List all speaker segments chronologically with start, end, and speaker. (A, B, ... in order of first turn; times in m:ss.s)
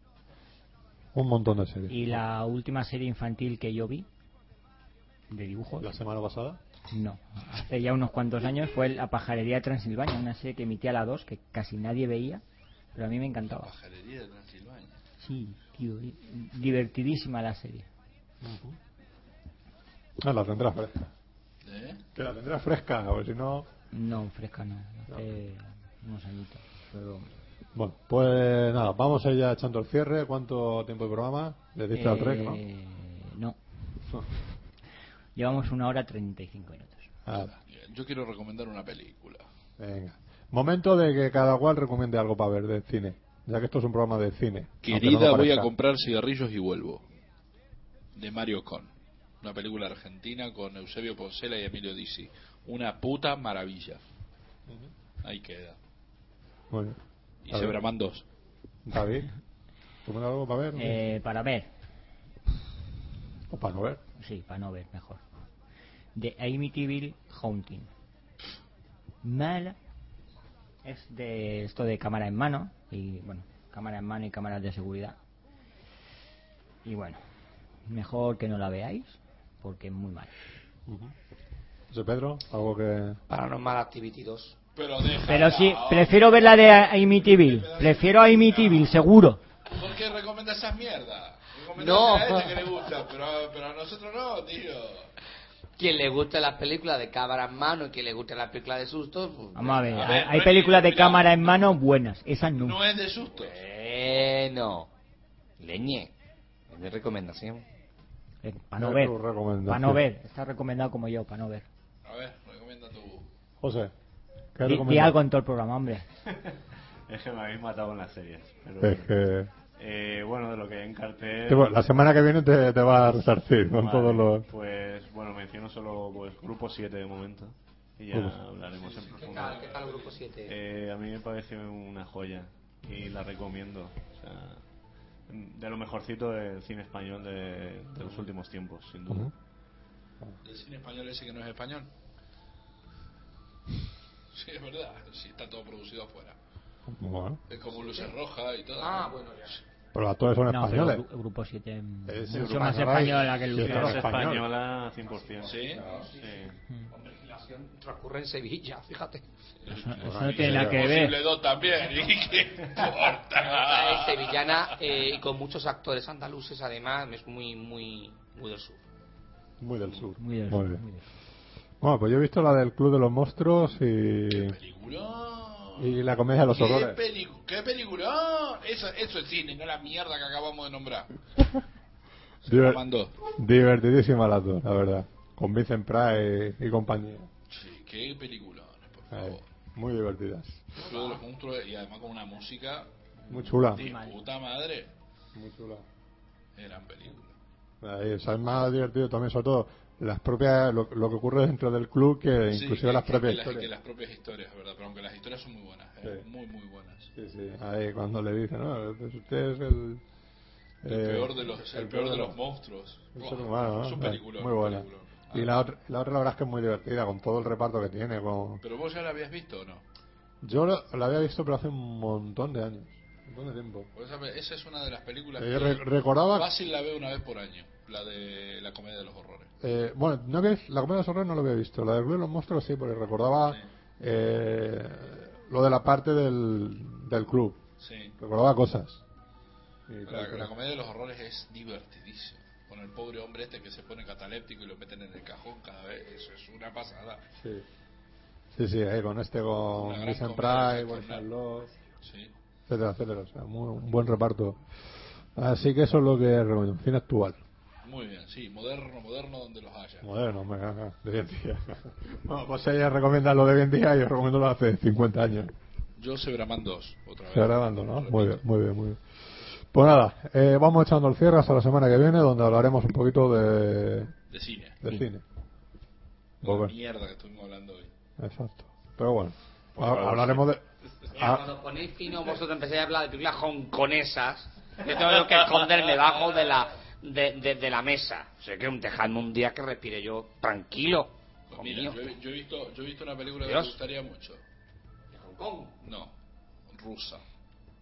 0:01.1-0:02.2 A
0:01.9-0:04.0 B
0:05.3-0:05.9 B
0:05.8-0:06.6 A
0:06.9-0:13.7 B
0:13.4-0:15.0 C
0:15.2-0:17.9 B
0:18.4-0:18.8 A
0:20.2-0:21.1 A
0:21.6-0:22.0 C
0:22.1-0:23.7 A
0:23.9-0:27.3 B
0:27.7-0:32.6 A
0:31.9-0:33.6 B
0:35.3-0:37.1 B
0:37.2-0:37.5 A
0:37.3-0:39.4 C
0:39.8-0:45.7 A
0:44.8-0:47.0 C
0:48.1-0:48.9 C
0:49.4-0:54.0 C
0:55.2-0:55.8 C
0:56.7-0:57.0 A
0:57.4-0:58.2 C
0:57.5-0:57.8 A
0:58.8-0:59.3 A
1:00.0-1:01.0 A
1:00.8-1:01.7 B
1:03.5-1:04.0 A
1:04.2-1:05.2 B
1:06.1-1:07.9 B
1:09.2-1:09.8 B
1:10.8-1:15.2 B
1:16.8-1:17.2 B
1:17.8-1:20.3 B
1:20.9-1:21.1 A
1:21.9-1:23.2 A
1:23.3-1:24.6 D
1:24.8-1:29.0 C
1:25.1-1:29.4 B
1:29.7-1:35.1 C
1:31.7-1:32.7 D
1:35.8-1:40.1 D
1:39.5-1:42.8 B
1:39.8-1:41.8 C
1:42.5-1:43.6 C
1:43.3-1:44.9 D
1:45.6-1:46.1 D
1:46.7-1:47.6 D
1:48.4-1:51.7 B
1:48.8-1:50.0 A
1:52.0-1:53.3 C
1:53.6-1:53.9 A
1:54.5-1:55.2 A
1:54.6-1:56.1 B
1:56.2-1:59.1 E
1:58.8-1:59.5 A
1:59.8-2:01.8 E
2:01.5-2:04.4 A
2:03.7-2:09.6 E
2:08.1-2:08.4 A
2:08.7-2:10.2 C
2:09.1-2:10.5 D
2:10.5-2:14.6 E
2:15.3-2:19.3 E
2:20.4-2:21.9 C
2:24.3-2:26.4 C
2:26.9-2:27.4 A
2:27.5-2:29.1 C
2:27.7-2:28.1 D
2:28.8-2:29.6 D
2:29.9-2:31.0 A
2:30.5-2:34.2 B
2:32.0-2:34.5 A
2:32.5-2:32.9 E
2:33.5-2:35.6 E
2:35.4-2:39.2 D
2:35.4-2:35.8 C
2:36.1-2:36.6 E
2:39.6-2:44.7 C
2:39.6-2:41.2 B
2:40.0-2:41.0 A
2:43.3-2:48.8 D
2:49.6-2:50.8 A
2:50.2-2:51.0 B
2:51.8-2:54.6 A
2:54.3-3:01.2 C
2:55.8-2:57.0 A
3:02.4-3:03.2 C
3:02.4-3:07.3 A
3:07.5-3:09.4 C
3:09.1-3:10.9 A
3:10.8-3:14.9 C
3:13.3-3:13.8 A
3:13.8-3:14.2 B
3:15.3-3:15.8 A
3:16.6-3:17.3 C
3:17.8-3:23.7 A
3:22.5-3:27.1 C
3:27.1-3:30.0 A
3:30.8-3:32.4 A
3:30.8-3:35.5 C
3:33.2-3:38.6 A
3:38.6-3:39.8 C
3:40.4-3:43.9 A
3:43.9-3:49.5 C
3:45.4-3:46.5 A
3:49.6-3:57.6 A
3:57.8-3:58.1 C
3:58.2-3:59.0 A
3:59.9-4:00.5 A
4:00.1-4:07.2 C
4:07.4-4:07.6 A
4:08.5-4:11.7 A
4:09.8-4:11.2 C
4:12.0-4:12.3 C
4:12.7-4:17.4 A
4:17.8-4:20.1 C
4:20.0-4:25.5 A
4:26.0-4:28.4 C
4:27.3-4:34.1 A
4:34.3-4:34.8 C
4:34.8-4:35.2 A
4:36.4-4:36.7 A
4:36.4-4:37.9 C
4:38.2-4:41.5 A
4:39.8-4:40.3 C
4:41.1-4:52.1 D
4:51.5-4:54.4 C
4:53.4-4:53.7 D
4:55.1-4:55.8 D
4:55.8-4:56.1 C
4:56.7-4:57.2 C